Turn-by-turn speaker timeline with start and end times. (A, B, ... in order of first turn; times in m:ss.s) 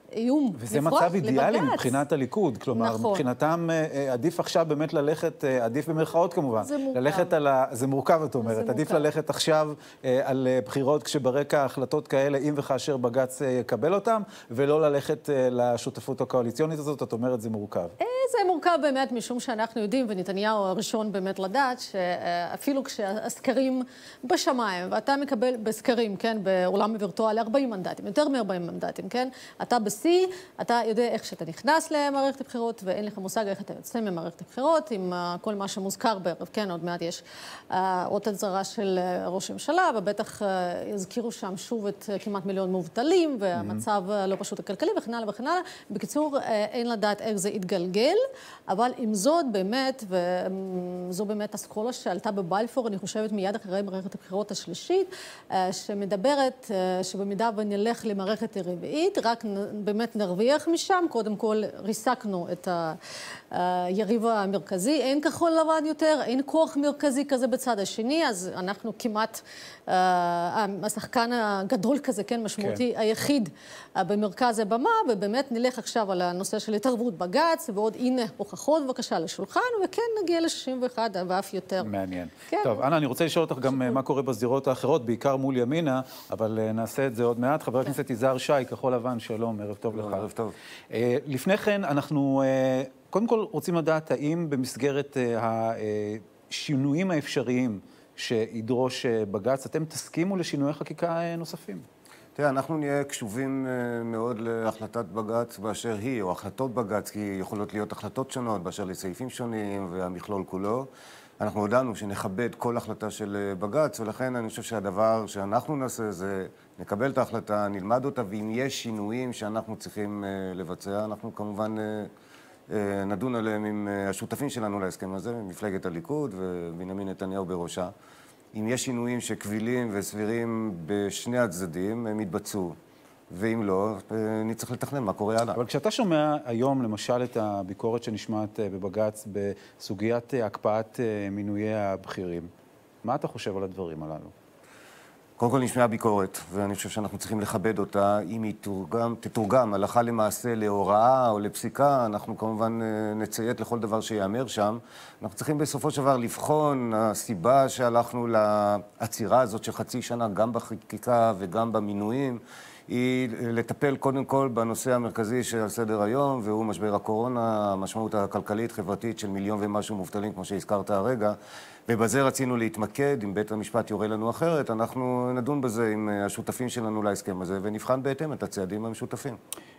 0:00.2-0:02.0 A
0:00.6-0:17.9 B
0:02.8-0:03.2 A
0:06.6-0:07.3 A
0:08.4-0:09.1 A
0:18.0-1:03.0 A
0:43.6-0:43.8 B
1:03.5-1:21.9 A
1:21.8-1:30.3 B
1:22.5-1:22.8 A
1:23.6-1:24.0 A
1:29.9-1:30.5 C
1:30.9-1:41.8 B
1:42.4-1:50.9 C
1:51.4-2:02.1 C
2:02.7-2:07.9 C
2:08.6-2:12.8 C
2:13.3-2:15.6 C
2:15.5-2:22.5 B
2:23.0-2:24.3 B
2:25.4-2:51.4 C
2:51.9-2:59.4 C